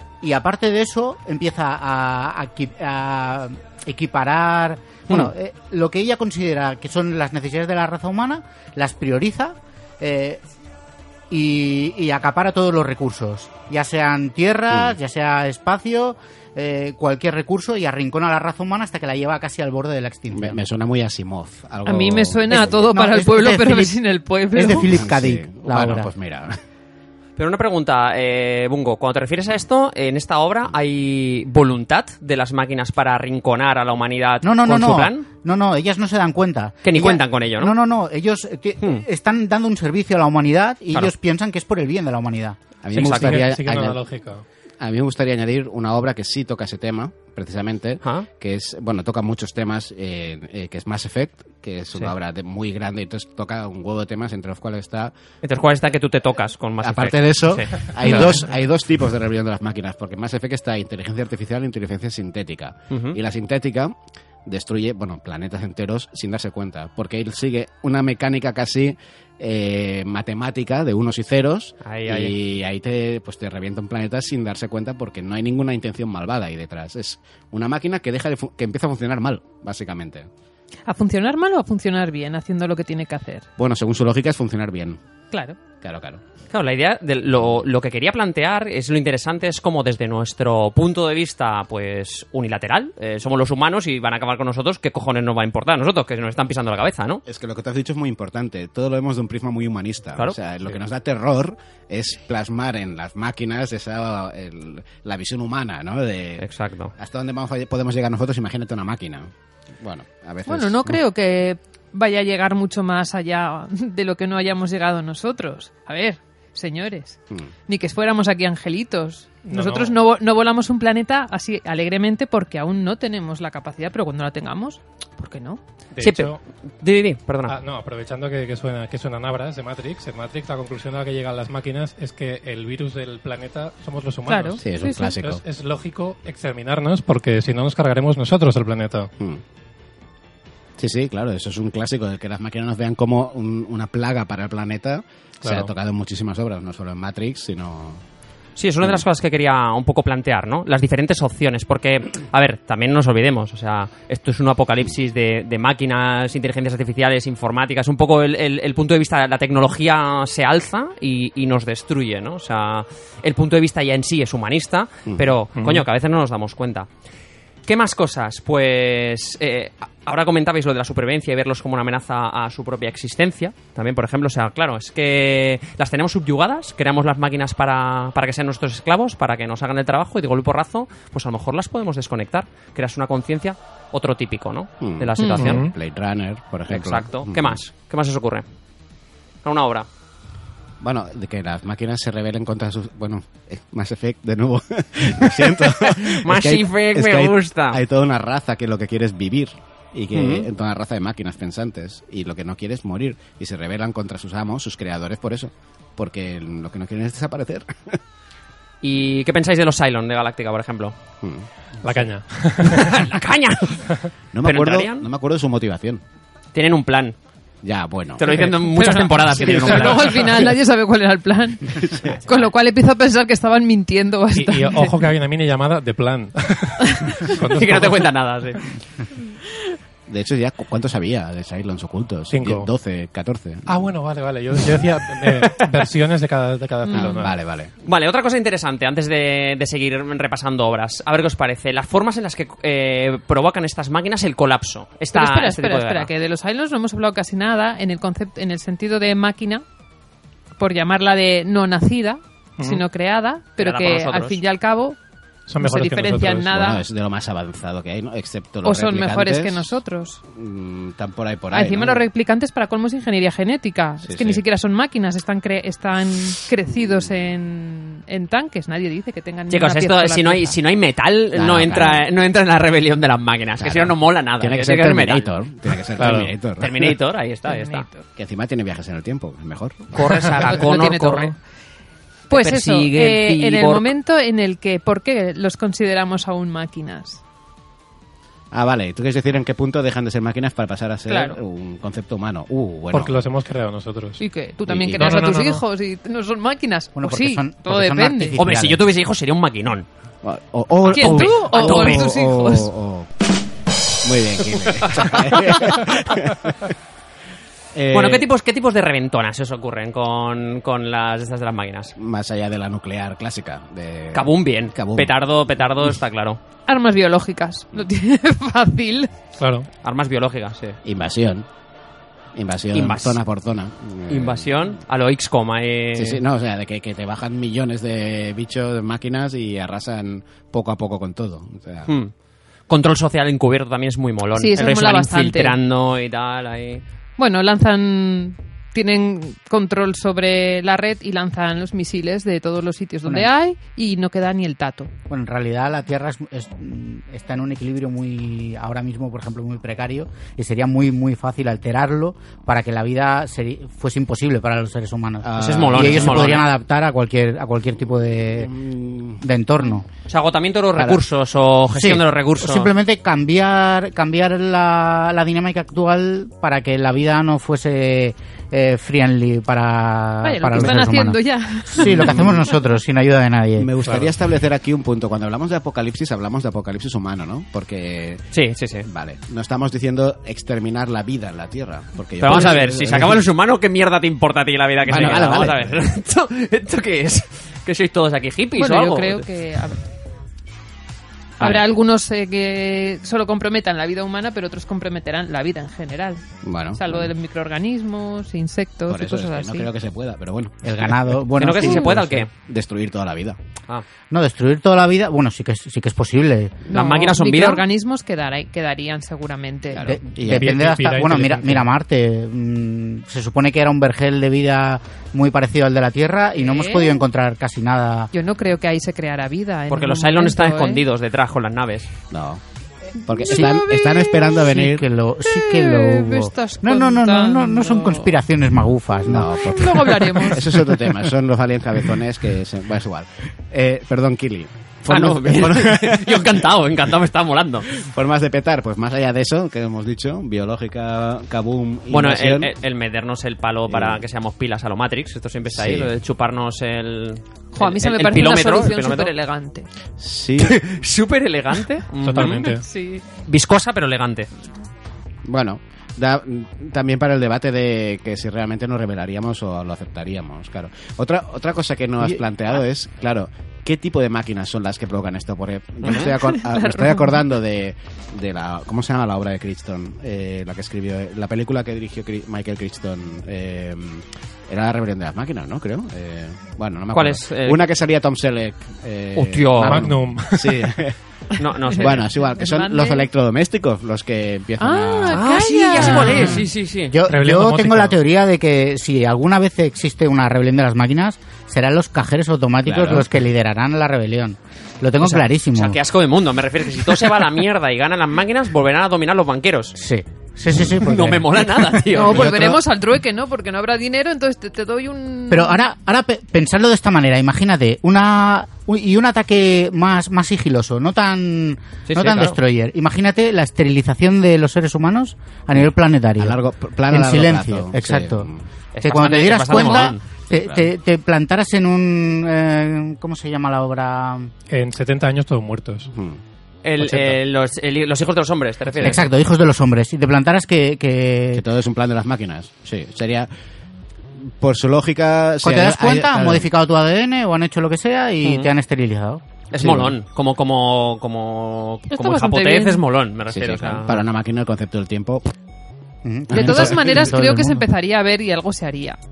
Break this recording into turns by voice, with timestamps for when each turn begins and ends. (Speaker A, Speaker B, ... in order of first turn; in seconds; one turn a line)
Speaker A: 0.2-10.4
Speaker A: 11.3-20.6
Speaker B: 14.7-15.0
Speaker B: 20.3-22.5
Speaker C: 21.9-24.9
Speaker A: 22.5-23.9
Speaker A: 24.6-26.1
Speaker B: 24.6-26.6
Speaker D: 27.4-35.3
Speaker A: 34.4-42.6
Speaker D: 36.8-37.7
Speaker B: 42.8-44.0
Speaker D: 42.9-43.5
Speaker E: 42.9-44.4
Speaker B: 44.8-55.1
Speaker D: 48.0-48.3
Speaker D: 55.4-58.4
Speaker B: 56.8-80.3
Speaker D: 62.9-63.2
Speaker D: 71.8-72.3
Speaker C: 80.9-83.5
Speaker B: 83.6-85.0
Speaker C: 85.3-85.6
Speaker B: 85.8-86.2
Speaker D: 86.5-97.2
Speaker B: 97.3-106.5
Speaker D: 106.4-106.9
Speaker B: 107.0-111.0
Speaker C: 110.5-125.6
Speaker E: 119.5-120.0
Speaker E: 126.0-126.4
Speaker D: 126.0-127.6
Speaker E: 127.5-134.7
Speaker C: 134.3-135.2
Speaker B: 134.6-135.4
Speaker E: 135.2-139.1
Speaker B: 140.8-148.0
Speaker D: 148.6-166.9
Speaker B: 165.1-165.4
Speaker E: 165.6-165.8
Speaker D: 167.7-185.7
Speaker B: 184.8-187.6
Speaker E: 185.4-185.7
Speaker D: 186.7-188.4
Speaker D: 189.4-189.9
Speaker B: 190.8-208.0
Speaker D: 195.5-197.8
Speaker D: 200.1-200.5
Speaker D: 208.8-210.9
Speaker B: 211.2-211.5
Speaker E: 211.8-213.1
Speaker D: 212.6-213.9
Speaker B: 214.3-216.0
Speaker D: 214.4-215.1
Speaker D: 216.5-217.2
Speaker B: 217.6-218.5
Speaker D: 218.2-220.4
Speaker C: 218.8-225.0
Speaker B: 221.8-222.2
Speaker E: 224.3-228.1
Speaker C: 226.8-227.2
Speaker D: 227.5-228.7
Speaker B: 230.1-233.7
Speaker E: 232.3-232.7
Speaker E: 233.7-237.4
Speaker C: 236.8-237.2
Speaker B: 237.0-237.7
Speaker D: 237.8-246.1
Speaker C: 245.1-249.6
Speaker C: 250.6-255.0
Speaker E: 252.6-252.8
Speaker D: 253.6-254.4
Speaker E: 255.5-256.6
Speaker C: 255.6-256.8
Speaker B: 256.5-259.8
Speaker C: 258.6-260.2
Speaker B: 260.3-262.0
Speaker C: 261.5-270.6
Speaker B: 264.0-264.4
Speaker D: 269.5-275.3
Speaker B: 271.3-272.1
Speaker B: 273.6-276.7
Speaker E: 276.0-276.3
Speaker D: 276.6-277.9
Speaker C: 277.5-278.1
Speaker B: 278.2-279.9
Speaker D: 279.9-281.3
Speaker C: 280.4-281.4
Speaker D: 282.3-283.9
Speaker C: 282.3-287.2
Speaker B: 288.5-293.2
Speaker C: 291.1-291.4
Speaker E: 292.9-294.2
Speaker C: 294.2-298.4
Speaker B: 294.7-295.2
Speaker E: 294.9-295.6
Speaker A: 297.0-298.8
Speaker D: 298.4-299.9
Speaker B: 300.2-303.1
Speaker D: 300.9-302.1
Speaker C: 300.9-302.7
Speaker B: 304.0-306.7
Speaker B: 307.7-308.3
Speaker D: 307.9-311.9
Speaker B: 312.0-315.1
Speaker D: 314.1-316.4
Speaker C: 316.7-319.1
Speaker E: 319.4-319.7
Speaker D: 319.8-320.8
Speaker B: 320.8-321.5
Speaker B: 322.4-324.5
Speaker D: 322.7-323.2
Speaker D: 324.1-326.2
Speaker B: 325.9-331.9
Speaker D: 331.9-332.1
Speaker D: 332.7-336.8
Speaker C: 334.4-335.6
Speaker C: 337.2-344.9
Speaker A: 345.1-358.5
Speaker B: 355.2-356.4
Speaker D: 355.4-356.5
Speaker B: 358.4-359.2
Speaker A: 359.2-359.9
Speaker D: 360.1-362.7
Speaker B: 360.8-361.0
Speaker A: 361.8-373.7
Speaker C: 370.2-372.5
Speaker B: 371.8-372.5
Speaker B: 373.6-378.3
Speaker D: 378.3-378.9
Speaker B: 378.8-383.3
Speaker D: 382.2-389.2
Speaker B: 384.9-385.8
Speaker C: 388.6-389.8
Speaker C: 391.4-396.2
Speaker B: 396.4-397.1
Speaker C: 396.8-399.7
Speaker B: 398.9-401.2
Speaker A: 400.6-402.3
Speaker D: 401.4-402.3
Speaker C: 401.6-401.9
Speaker B: 402.3-403.4
Speaker A: 404.1-406.6
Speaker C: 406.7-409.9
Speaker D: 406.7-407.6
Speaker B: 409.7-410.7
Speaker A: 409.8-418.1
Speaker E: 410.2-411.7
Speaker C: 416.3-417.0
Speaker C: 418.1-420.8
Speaker D: 419.7-421.9
Speaker B: 422.1-422.4
Speaker B: 423.0-424.9
Speaker C: 423.2-424.6
Speaker A: 424.5-429.3
Speaker C: 425.2-428.1
Speaker B: 429.1-436.4
Speaker C: 429.4-430.6
Speaker D: 434.9-437.7
Speaker B: 437.7-442.5
Speaker D: 441.9-449.1
Speaker B: 443.7-444.0
Speaker B: 445.5-445.9
Speaker C: 447.5-449.7
Speaker B: 450.0-450.7
Speaker D: 450.4-452.5
Speaker E: 452.0-452.6
Speaker C: 452.4-453.0
Speaker D: 453.2-454.3
Speaker B: 455.2-481.0
Speaker C: 465.9-467.2
Speaker D: 476.9-477.6
Speaker D: 479.2-479.9
Speaker E: 479.6-480.8
Speaker D: 481.4-482.1
Speaker C: 481.6-483.1
Speaker B: 481.7-485.3
Speaker C: 484.6-486.4
Speaker D: 485.1-487.0
Speaker A: 485.8-486.4
Speaker E: 486.0-486.3
Speaker A: 486.9-495.8
Speaker E: 487.1-488.0
Speaker B: 492.6-493.1
Speaker D: 495.0-499.8
Speaker A: 499.8-501.9
Speaker D: 500.6-502.5
Speaker C: 501.9-505.6
Speaker B: 502.1-502.6
Speaker A: 505.3-518.3
Speaker D: 511.9-512.4
Speaker B: 515.6-518.4
Speaker D: 518.7-520.0
Speaker A: 518.8-524.3
Speaker B: 519.5-520.7
Speaker E: 524.5-525.9
Speaker B: 525.9-526.2
Speaker D: 526.6-529.0
Speaker E: 526.8-527.2
Speaker A: 528.8-531.5
Speaker B: 531.3-533.3
Speaker B: 534.2-536.5
Speaker A: 535.4-539.2
Speaker D: 538.2-538.5
Speaker D: 539.5-544.0
Speaker B: 539.6-539.9
Speaker C: 541.9-542.8
Speaker B: 543.3-545.3
Speaker A: 546.0-547.6
Speaker B: 546.3-547.1
Speaker C: 546.3-549.0